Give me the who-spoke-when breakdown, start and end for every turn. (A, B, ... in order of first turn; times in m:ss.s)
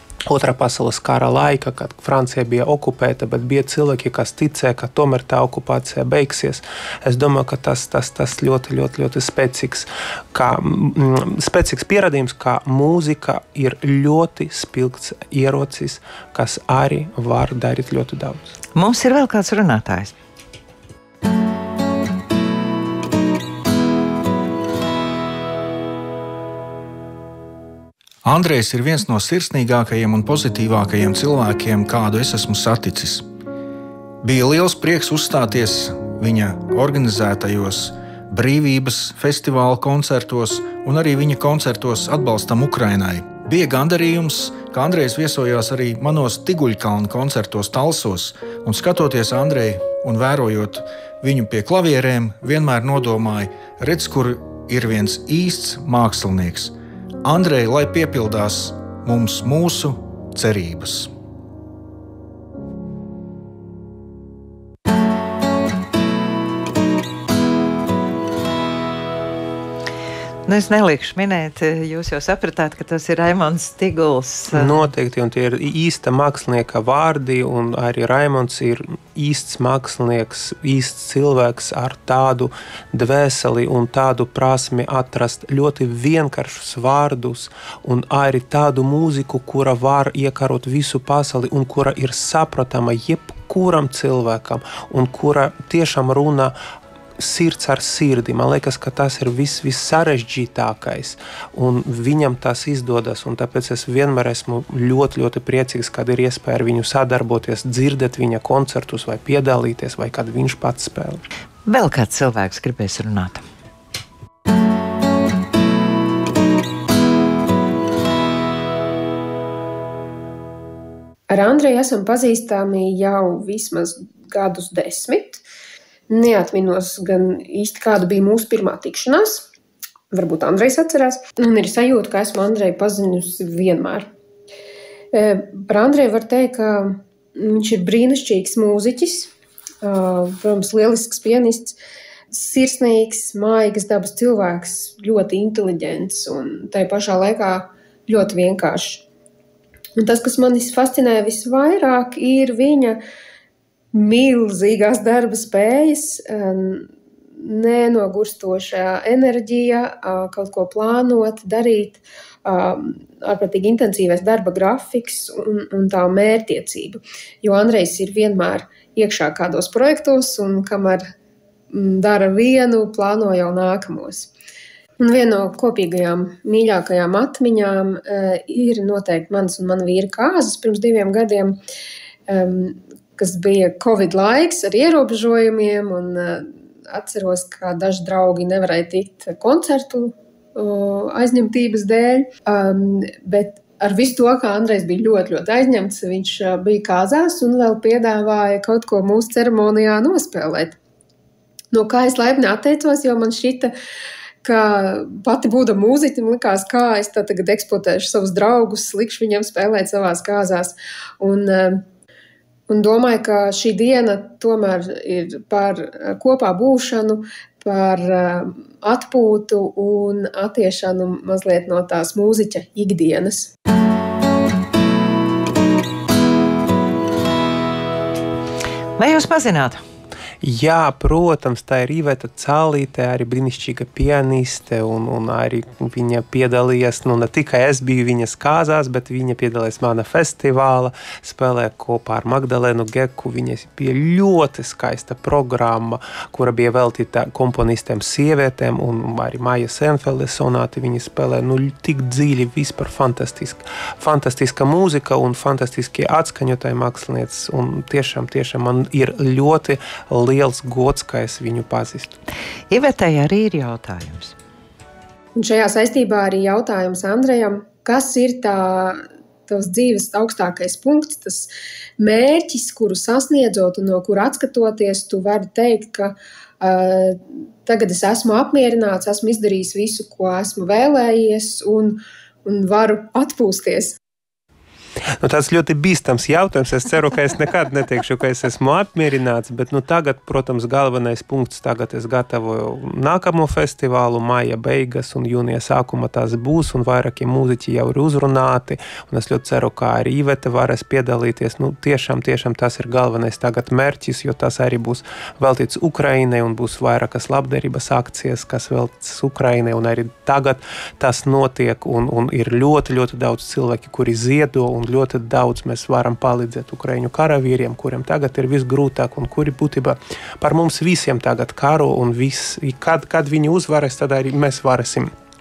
0:00.3-0:18.5 A
0:18.7-0:20.1 B
0:28.2-0:33.2 C
0:34.2-0:56.7 C
0:57.2-1:01.1 C
1:10.5-1:14.8 B
1:14.5-1:36.6 A
1:37.2-1:51.2 A
1:51.6-1:53.4 B
2:01.3-2:05.4 D
2:06.1-2:09.5 D
2:10.1-2:14.1 D
2:15.1-2:19.3 D
2:19.8-2:21.8 D
2:22.3-2:29.0 D
2:30.0-2:33.0 D
2:33.9-2:51.0 D
2:51.7-2:54.3 D
2:55.0-3:01.6 D
3:02.3-3:20.8 D
3:21.7-3:23.7 D
3:24.4-3:31.8 D
3:32.7-3:43.5 D
3:49.0-3:49.8 B
3:50.4-4:22.2 A
4:22.7-4:24.3 B
4:25.4-4:44.0 D
4:45.2-5:25.1 A